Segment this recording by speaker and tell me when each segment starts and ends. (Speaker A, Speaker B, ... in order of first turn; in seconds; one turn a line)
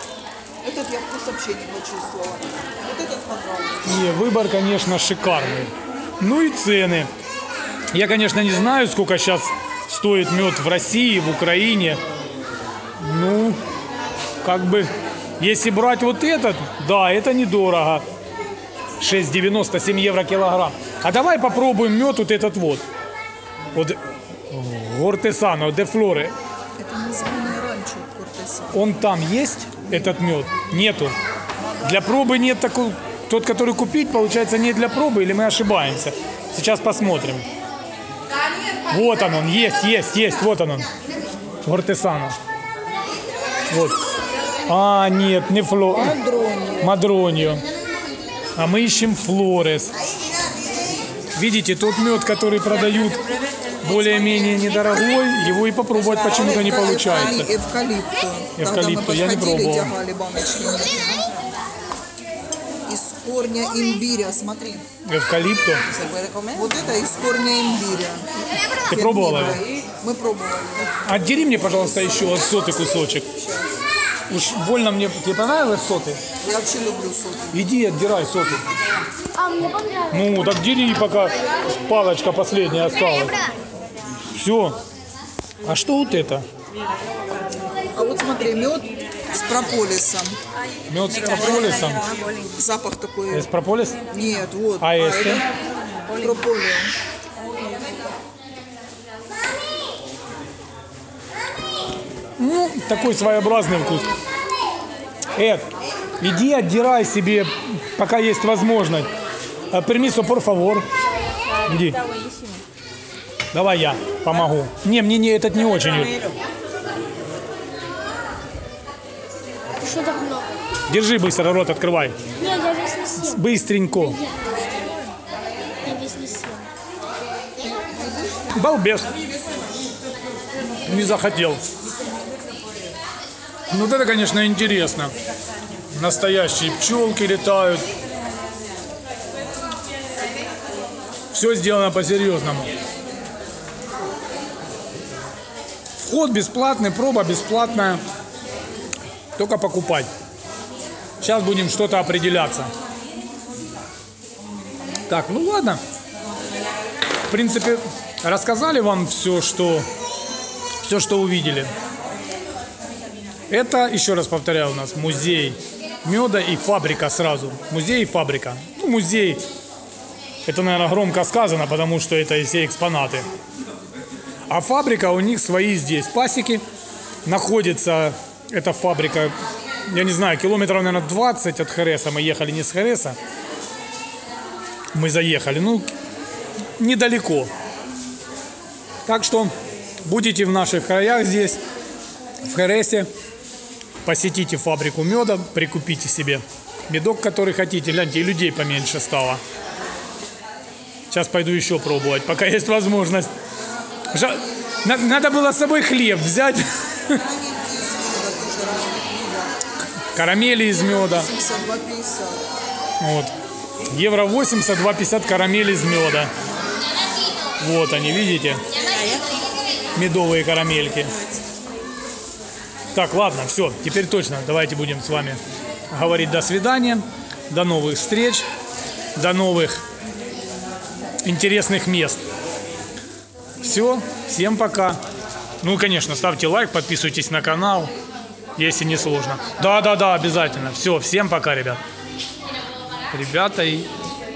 Speaker A: 0.6-3.9
Speaker B: 3.8-7.1
Speaker B: 7.9-12.0
Speaker B: 13.0-13.6
Speaker B: 14.4-18.0
Speaker B: 19.0-22.9
Speaker B: 24.5-26.3
Speaker A: 26.8-28.8
Speaker B: 28.7-31.1
Speaker B: 31.8-37.5
Speaker B: 38.9-40.9
Speaker B: 41.6-42.4
Speaker B: 43.7-44.0
Speaker B: 44.7-46.1
Speaker A: 45.9-46.9
Speaker B: 46.8-47.6
Speaker B: 48.6-49.9
Speaker B: 51.4-53.2
Speaker B: 53.8-57.5
Speaker A: 56.2-61.2
Speaker B: 58.6-60.0
Speaker A: 62.9-64.8
Speaker B: 65.0-65.9
Speaker A: 66.0-68.2
Speaker B: 68.9-69.6
Speaker A: 68.9-70.9
Speaker B: 71.1-73.3
Speaker B: 74.3-76.2
Speaker A: 76.4-77.5
Speaker B: 77.5-78.6
Speaker B: 80.1-83.4
Speaker B: 84.3-84.8
Speaker B: 85.6-86.5
Speaker A: 87.9-90.4
Speaker B: 90.9-92.0
Speaker A: 92.5-93.5
Speaker B: 93.3-94.0
Speaker A: 94.1-95.5
Speaker B: 94.8-95.4
Speaker A: 96.1-96.9
Speaker B: 102.4-104.1
Speaker B: 105.3-105.7
Speaker B: 106.2-109.1
Speaker B: 109.7-110.9
Speaker B: 111.7-112.0
Speaker B: 113.5-116.2
Speaker C: 119.9-120.4
Speaker B: 120.9-122.2
Speaker C: 122.5-123.1
Speaker B: 123.1-124.2
Speaker C: 125.9-126.7
Speaker B: 128.5-129.1
Speaker B: 130.8-131.6
Speaker B: 133.7-135.1
Speaker B: 135.9-137.9
Speaker B: 141.3-142.7
Speaker B: 146.0-148.0
Speaker B: 149.4-150.1
Speaker B: 151.2-152.7
Speaker B: 155.1-155.8
Speaker B: 157.3-159.9
Speaker B: 160.8-161.7
Speaker B: 163.5-169.4
Speaker B: 170.5-173.2
Speaker B: 174.5-176.6
Speaker B: 177.2-179.3
Speaker B: 179.9-183.2
Speaker B: 184.9-185.8
Speaker B: 186.8-187.5
Speaker B: 189.1-189.5
Speaker B: 190.0-191.6
Speaker B: 192.4-193.1
Speaker B: 194.0-199.4
Speaker B: 201.1-203.3
Speaker B: 204.1-207.2
Speaker A: 207.1-209.5
Speaker B: 210.1-211.3
Speaker A: 210.9-212.4
Speaker B: 213.0-213.3
Speaker B: 213.9-216.3
Speaker B: 217.6-218.6
Speaker B: 219.9-221.1
Speaker B: 222.9-228.5
Speaker B: 229.1-229.8
Speaker B: 231.2-232.2
Speaker B: 233.6-235.0
Speaker B: 235.6-237.9
Speaker B: 238.6-241.8
Speaker B: 243.1-243.9